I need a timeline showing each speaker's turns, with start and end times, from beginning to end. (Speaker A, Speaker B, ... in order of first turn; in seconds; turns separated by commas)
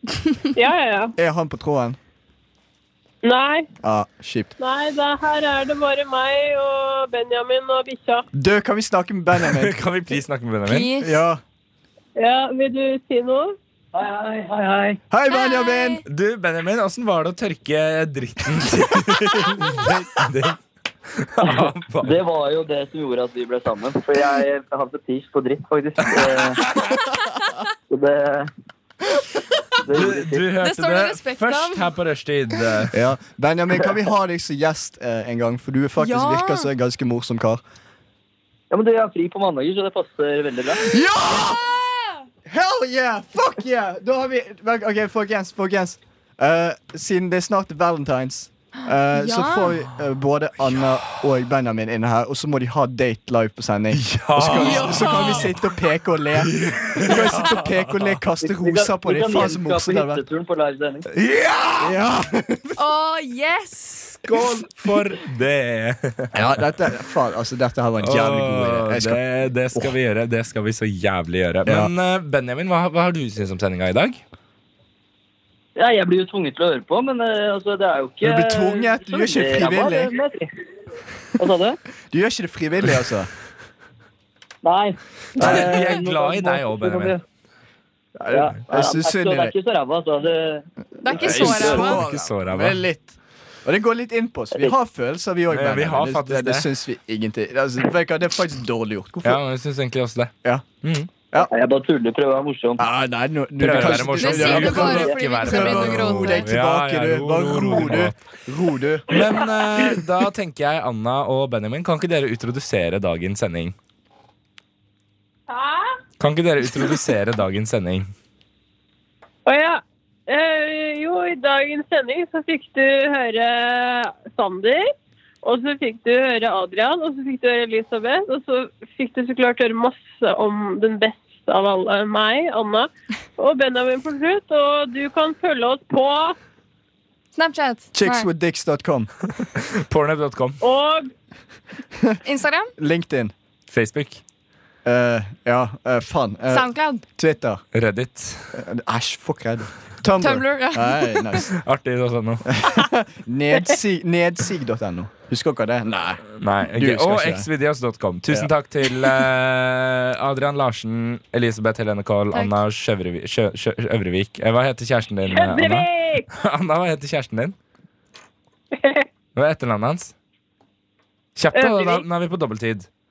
Speaker A: 0.6-1.1, Speaker B: 1.2-2.0, Speaker A: 3.2-3.7, Speaker B: 3.8-4.5, Speaker A: 4.6-8.3, Speaker B: 8.3-9.8, Speaker C: 9.4-10.9, Speaker D: 10.7-11.2, Speaker B: 11.0-11.4, Speaker A: 12.2-13.6, Speaker E: 13.9-15.0, Speaker B: 15.1-16.0, Speaker D: 15.3-16.0, Speaker C: 16.1-20.6, Speaker C: 21.1-22.1, Speaker E: 21.4-26.6, Speaker C: 26.0-27.0, Speaker E: 27.9-28.5, Speaker E: 29.8-30.5, Speaker C: 29.9-33.0, Speaker D: 30.6-31.9, Speaker B: 32.9-37.6, Speaker D: 36.0-36.7, Speaker E: 38.7-40.8, Speaker B: 40.9-41.6, Speaker D: 41.3-42.1, Speaker B: 42.5-60.2, Speaker D: 49.1-49.8, Speaker C: 50.8-51.2, Speaker C: 53.9-55.6, Speaker D: 54.5-55.5, Speaker C: 56.4-58.2, Speaker E: 58.4-61.1, Speaker C: 61.1-62.0, Speaker B: 61.8-62.8, Speaker D: 62.8-64.3, Speaker C: 64.2-66.5, Speaker B: 66.3-69.9, Speaker C: 68.0-74.2, Speaker B: 71.7-71.9, Speaker E: 75.8-80.5, Speaker B: 78.2-80.2, Speaker E: 81.4-81.8, Speaker B: 82.1-83.3, Speaker E: 84.6-87.2, Speaker C: 85.4-87.2, Speaker B: 85.4-86.0, Speaker B: 88.2-89.5, Speaker E: 88.3-92.0, Speaker D: 91.0-92.0, Speaker B: 91.2-99.4, Speaker C: 91.3-92.8, Speaker C: 95.5-96.7, Speaker C: 99.2-100.3, Speaker B: 100.4-100.7, Speaker C: 100.8-101.1, Speaker E: 101.4-102.8, Speaker B: 102.8-109.2, Speaker C: 103.6-108.2, Speaker D: 103.8-106.5, Speaker C: 109.1-113.8, Speaker A: 115.5-116.0, Speaker C: 116.2-118.1, Speaker A: 119.5-124.9, Speaker A: 125.4-136.4, Speaker D: 137.4-138.3, Speaker B: 137.9-139.1, Speaker C: 139.6-140.6, Speaker A: 140.6-141.1, Speaker D: 142.2-142.7, Speaker B: 142.8-143.3, Speaker C: 143.7-144.2, Speaker B: 144.8-147.6, Speaker D: 146.5-147.0, Speaker C: 147.7-148.5, Speaker B: 148.5-151.6, Speaker D: 150.2-151.2, Speaker C: 151.5-152.6, Speaker B: 152.5-157.5, Speaker C: 156.4-167.6, Speaker D: 162.3-162.6, Speaker A: 165.3-166.3, Speaker A: 168.7-169.1, Speaker C: 169.3-170.2, Speaker C: 171.4-172.9, Speaker A: 171.5-172.1